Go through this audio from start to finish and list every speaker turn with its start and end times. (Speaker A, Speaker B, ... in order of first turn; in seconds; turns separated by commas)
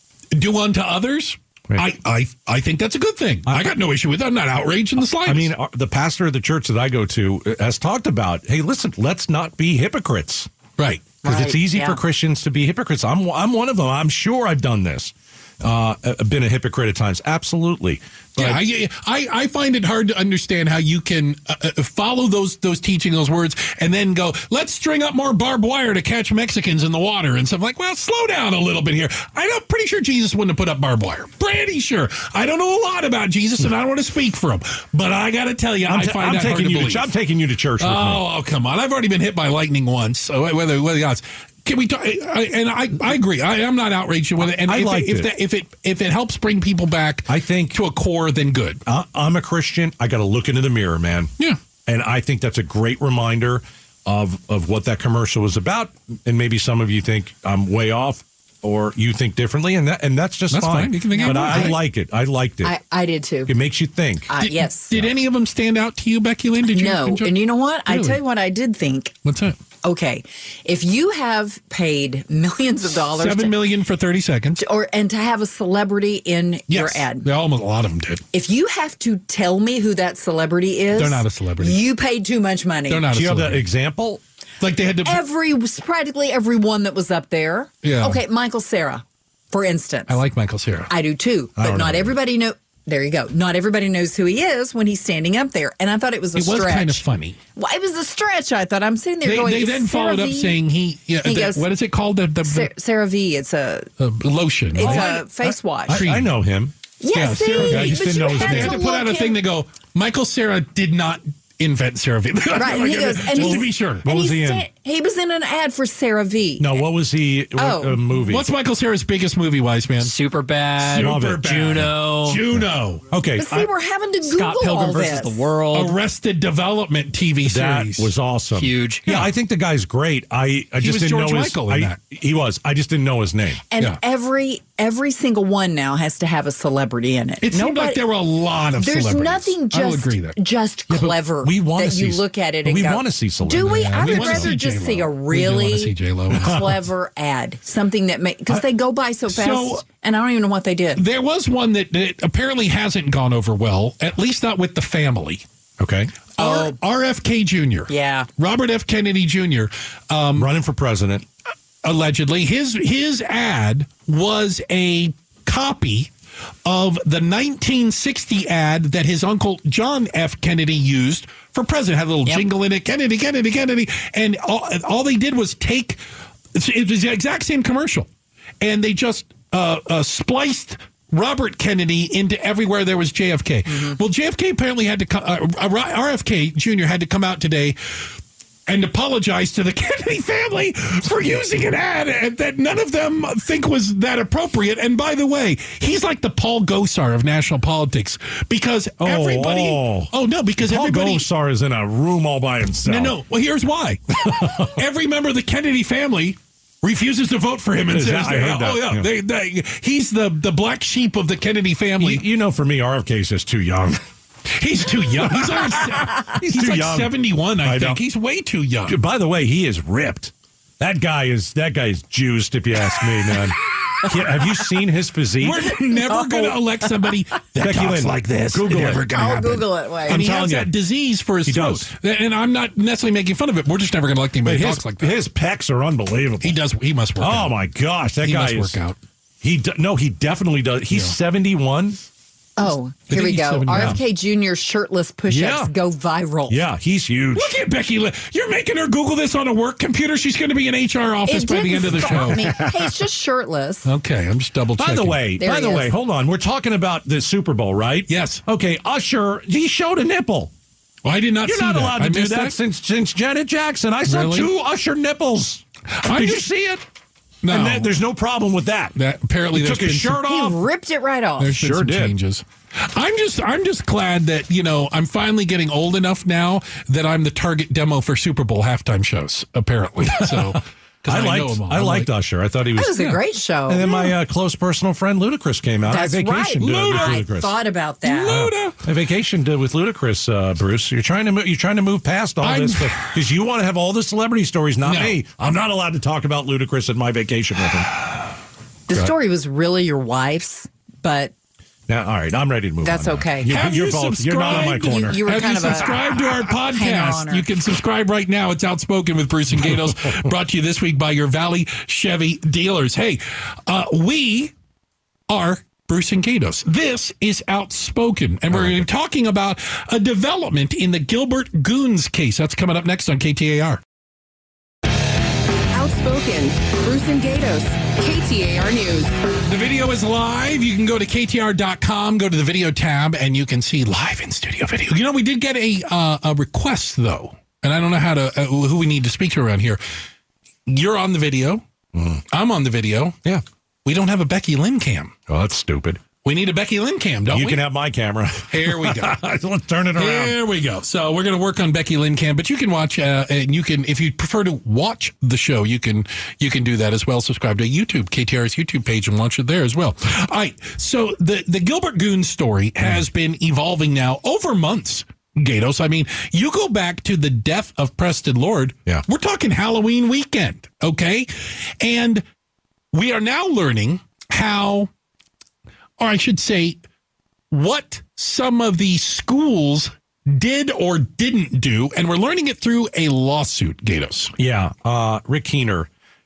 Speaker A: 0.3-5.5, Speaker B: 5.2-10.5, Speaker A: 10.8-11.1, Speaker C: 11.2-12.0, Speaker B: 11.2-18.6, Speaker A: 18.4-37.1, Speaker B: 35.9-38.2, Speaker A: 37.8-48.8, Speaker B: 44.4-45.3, Speaker B: 47.3-47.8, Speaker B: 48.9-51.3, Speaker B: 51.9-62.7, Speaker A: 60.5-61.8, Speaker C: 61.1-61.8, Speaker C: 62.6-63.5, Speaker B: 63.5-64.3, Speaker C: 64.3-64.9, Speaker A: 64.4-67.4, Speaker C: 66.7-69.1, Speaker A: 67.9-68.2, Speaker A: 69.2-69.6, Speaker C: 69.8-73.6, Speaker A: 73.1-74.6, Speaker C: 74.6-77.2, Speaker A: 76.7-78.2, Speaker C: 78.3-83.0, Speaker A: 80.9-81.8, Speaker A: 82.9-83.7, Speaker B: 83.1-84.2, Speaker A: 84.6-85.2, Speaker C: 85.0-90.2, Speaker A: 87.8-88.2, Speaker A: 90.1-90.9, Speaker C: 90.9-97.0, Speaker B: 91.6-92.1, Speaker A: 96.3-97.4, Speaker C: 97.5-100.6, Speaker A: 99.2-102.7, Speaker C: 101.2-101.7, Speaker C: 102.4-103.9, Speaker A: 104.0-105.2, Speaker C: 104.7-106.0, Speaker B: 104.8-106.7, Speaker A: 105.9-106.3, Speaker C: 107.0-109.4, Speaker A: 107.1-114.0, Speaker B: 107.6-108.8, Speaker C: 112.5-116.8, Speaker B: 113.3-114.7, Speaker B: 116.6-118.5, Speaker C: 117.5-118.0, Speaker A: 118.2-120.1, Speaker D: 120.0-122.4, Speaker A: 120.8-123.1, Speaker B: 120.9-121.9, Speaker B: 123.1-123.7, Speaker C: 123.3-125.4, Speaker D: 124.2-126.0, Speaker A: 125.7-128.1, Speaker B: 127.4-133.6, Speaker D: 128.5-129.1, Speaker A: 130.8-132.0, Speaker C: 133.7-138.0, Speaker A: 137.4-140.4, Speaker C: 138.8-151.0, Speaker B: 140.9-144.5, Speaker A: 143.6-146.6, Speaker B: 146.3-146.6, Speaker A: 149.3-149.8, Speaker A: 150.9-155.4, Speaker B: 155.8-156.1, Speaker A: 156.3-160.5, Speaker C: 156.4-156.8, Speaker C: 157.9-158.3, Speaker B: 160.3-161.2, Speaker A: 161.8-166.1, Speaker A: 166.6-176.0, Speaker A: 176.5-178.1, Speaker A: 178.6-188.1, Speaker A: 188.7-201.3, Speaker B: 199.0-203.2, Speaker A: 202.8-212.2, Speaker B: 204.2-204.8, Speaker B: 207.9-209.1, Speaker B: 212.0-214.0, Speaker A: 214.5-219.0, Speaker B: 215.1-218.0, Speaker B: 218.9-225.7, Speaker A: 225.4-235.2, Speaker C: 226.1-226.9, Speaker B: 227.6-229.1, Speaker C: 229.1-230.2, Speaker B: 230.1-230.7, Speaker B: 231.4-231.9, Speaker B: 234.4-236.6, Speaker A: 236.4-237.5, Speaker B: 237.2-238.8, Speaker A: 238.2-239.0, Speaker B: 239.4-242.0, Speaker C: 242.6-246.6, Speaker A: 243.1-244.0, Speaker B: 243.7-244.0, Speaker B: 245.3-245.7, Speaker B: 246.5-247.6, Speaker A: 247.3-252.6, Speaker C: 251.3-253.9, Speaker B: 251.9-252.8, Speaker A: 253.8-255.2, Speaker B: 254.8-260.5, Speaker C: 255.4-255.9, Speaker A: 258.1-258.4, Speaker A: 261.0-262.6, Speaker B: 261.4-266.8, Speaker A: 264.1-264.5, Speaker A: 265.9-266.5, Speaker A: 267.4-267.9, Speaker B: 267.5-268.9, Speaker A: 268.9-270.3, Speaker B: 269.5-270.6, Speaker C: 270.2-271.6, Speaker A: 271.4-282.1, Speaker B: 271.6-272.1, Speaker B: 280.0-283.1, Speaker C: 282.8-283.9, Speaker B: 283.7-287.6, Speaker C: 285.9-288.4, Speaker A: 286.6-287.2, Speaker A: 288.0-288.8, Speaker B: 288.3-297.9, Speaker A: 292.4-293.1, Speaker A: 294.8-295.2, Speaker C: 298.9-301.3, Speaker B: 301.9-305.9, Speaker C: 302.8-303.5, Speaker A: 303.5-314.5, Speaker C: 304.4-307.5, Speaker A: 315.3-323.8, Speaker B: 318.5-318.9, Speaker E: 325.7-329.1, Speaker A: 329.4-339.8, Speaker A: 340.7-341.6, Speaker B: 341.9-342.2, Speaker A: 342.3-343.2, Speaker A: 343.8-345.1, Speaker B: 345.3-346.0, Speaker A: 346.2-347.6, Speaker B: 347.3-350.4, Speaker A: 348.5-349.2, Speaker A: 350.0-372.2, Speaker A: 372.9-374.9, Speaker A: 376.0-376.8, Speaker A: 377.5-384.3, Speaker B: 384.4-385.9